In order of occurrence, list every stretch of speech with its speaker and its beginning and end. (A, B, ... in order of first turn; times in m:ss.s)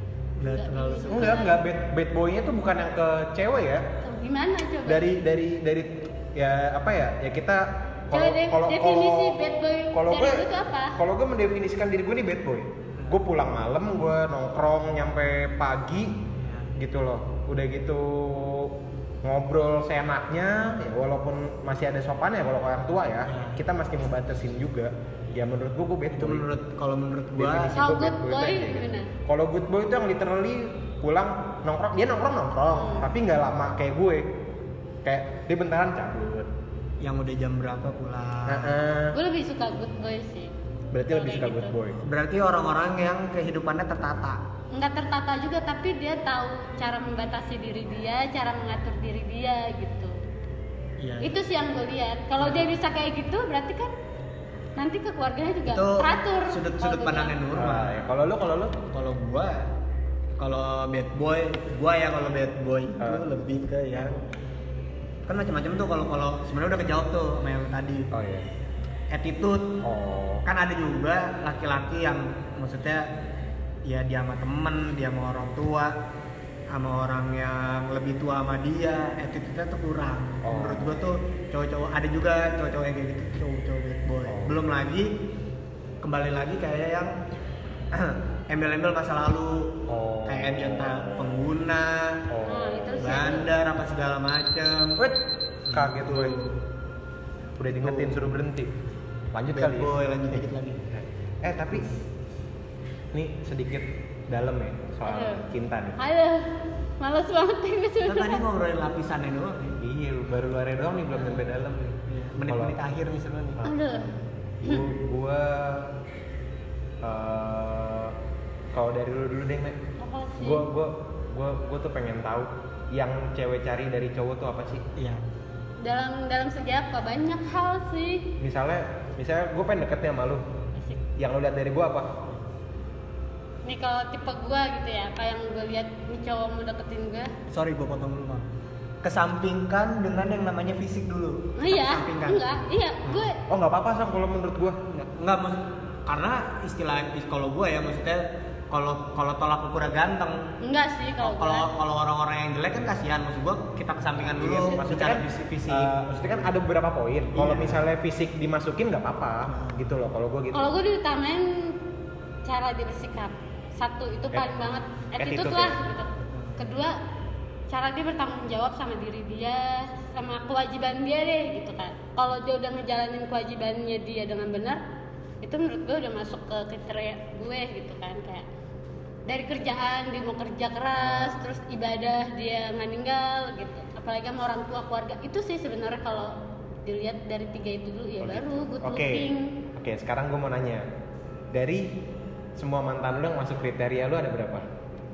0:00.4-0:01.4 A
0:00.4-0:01.6 B
0:01.1-0:03.8 C
0:04.0-0:05.1 B
0:04.9-0:09.4 C
0:08.1-0:11.0 B
0:09.9-0:16.2 C
0:16.4-0:16.7 A
0:16.8-0:26.5 C
0:23.3-0:23.6 A
0:26.1-0:27.8 A
0:27.4-0:34.3 C
0:27.8-0:29.1 B
0:32.7-0:33.1 B
0:35.0-0:36.5 C
0:37.0-0:38.8 A
0:38.5-0:39.2 C
0:39.1-0:40.5 B
0:40.9-0:42.0 C
0:41.1-0:41.7 B
0:42.0-0:44.4 A
0:44.7-0:50.2 B
0:51.0-0:51.4 A
0:51.2-0:53.9 B
0:52.4-0:52.7 A
0:54.8-0:57.4 B
0:55.7-0:58.0 A
0:57.5-0:58.8 C
0:58.9-0:59.7 A
1:00.4-1:04.2 A
1:03.0-1:03.3 C
1:05.3-1:08.1 A
1:08.1-1:08.5 C
1:09.1-1:09.8 A
1:09.8-1:10.5 C
1:10.4-1:13.1 A
1:13.9-1:15.9 A
1:16.7-1:25.1 A
1:20.4-1:21.0 C
1:24.3-1:24.6 C
1:26.0-1:27.2 A
1:27.9-1:32.3 A
1:29.9-1:31.4 C
1:32.3-1:33.2 C
1:32.4-1:33.5 B
1:33.0-1:35.1 A
1:35.0-1:36.4 C
1:35.7-1:36.6 A
1:37.6-1:38.7 C
1:37.7-1:38.3 A
1:39.3-1:39.9 C
1:39.5-1:40.9 A
1:41.0-1:41.9 C
1:43.1-1:46.0 C
1:45.0-1:45.4 B
1:46.0-1:48.4 B
1:48.0-1:49.8 A
1:49.8-1:52.8 C
1:51.2-1:51.5 A
1:52.1-1:53.6 A
1:53.6-1:55.9 C
1:53.6-1:54.1 B
1:57.0-1:58.2 C
1:58.7-1:59.8 C
2:00.0-2:00.6 B
2:00.4-2:04.8 C
2:05.0-2:05.2 A
2:05.8-2:08.3 B
2:08.4-2:10.4 C
2:10.8-2:11.0 B
2:11.2-2:12.1 C
2:13.6-2:17.3 B
2:17.5-2:18.5 A
2:19.0-2:23.2 A
2:21.6-2:23.4 B
2:23.5-2:24.8 C
2:24.9-2:30.5 A
2:30.6-2:31.7 B
2:31.2-2:35.9 A
2:34.3-2:40.8 C
2:37.4-2:37.8 A
2:39.5-2:39.8 A
2:40.5-2:41.8 B
2:42.4-2:47.0 B
2:44.3-2:44.6 C
2:45.2-2:45.8 C
2:46.2-2:46.6 A
2:47.7-2:54.8 B
2:55.4-2:58.5 B
2:59.3-3:09.6 B
3:01.0-3:01.5 C
3:08.2-3:10.8 C
3:11.5-3:11.9 C
3:12.6-3:14.7 C